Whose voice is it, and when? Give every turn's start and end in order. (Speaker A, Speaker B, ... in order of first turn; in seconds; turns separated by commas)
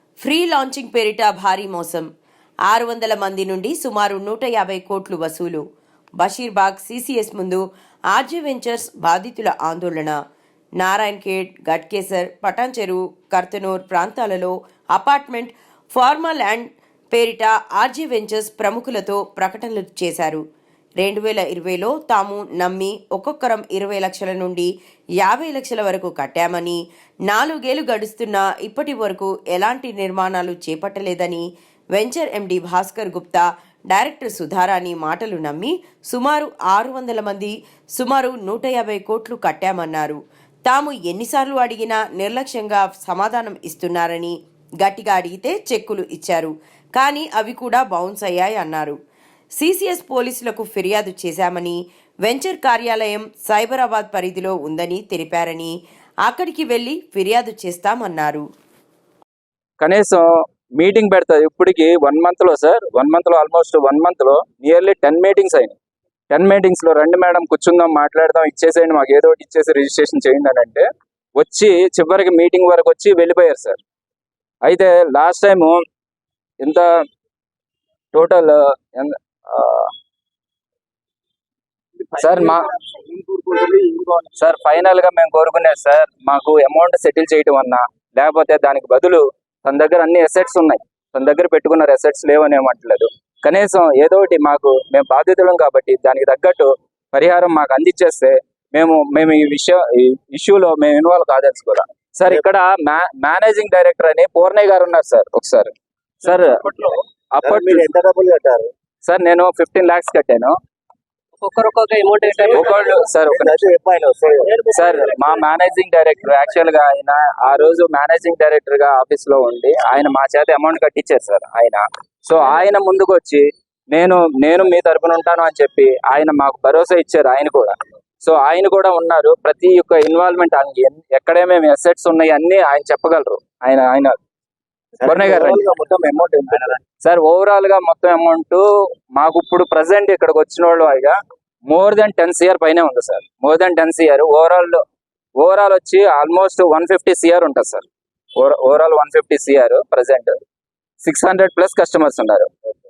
Speaker A: 0.2-2.1, Speaker A: 2.7-5.6, Speaker A: 6.2-7.6, Speaker A: 8.1-10.2, Speaker A: 10.8-20.4, Speaker A: 21.0-24.7, Speaker A: 25.2-31.4, Speaker A: 31.9-49.0, Speaker A: 49.6-55.7, Speaker A: 56.2-58.4, Speaker B: 59.8-60.2, Speaker B: 60.8-65.8, Speaker B: 66.3-70.8, Speaker B: 71.4-73.8, Speaker B: 74.6-75.8, Speaker B: 78.1-79.9, Speaker B: 82.2-82.7, Speaker C: 83.1-84.2, Speaker B: 84.4-106.6, Speaker B: 107.3-107.9, Speaker C: 107.4-108.7, Speaker B: 109.0-110.5, Speaker B: 111.7-113.6, Speaker C: 113.3-114.7, Speaker B: 114.7-134.2, Speaker C: 135.0-136.8, Speaker B: 135.0-135.6, Speaker B: 137.0-141.2, Speaker B: 141.7-144.8, Speaker B: 145.4-147.8, Speaker B: 148.4-150.3, Speaker B: 151.0-152.5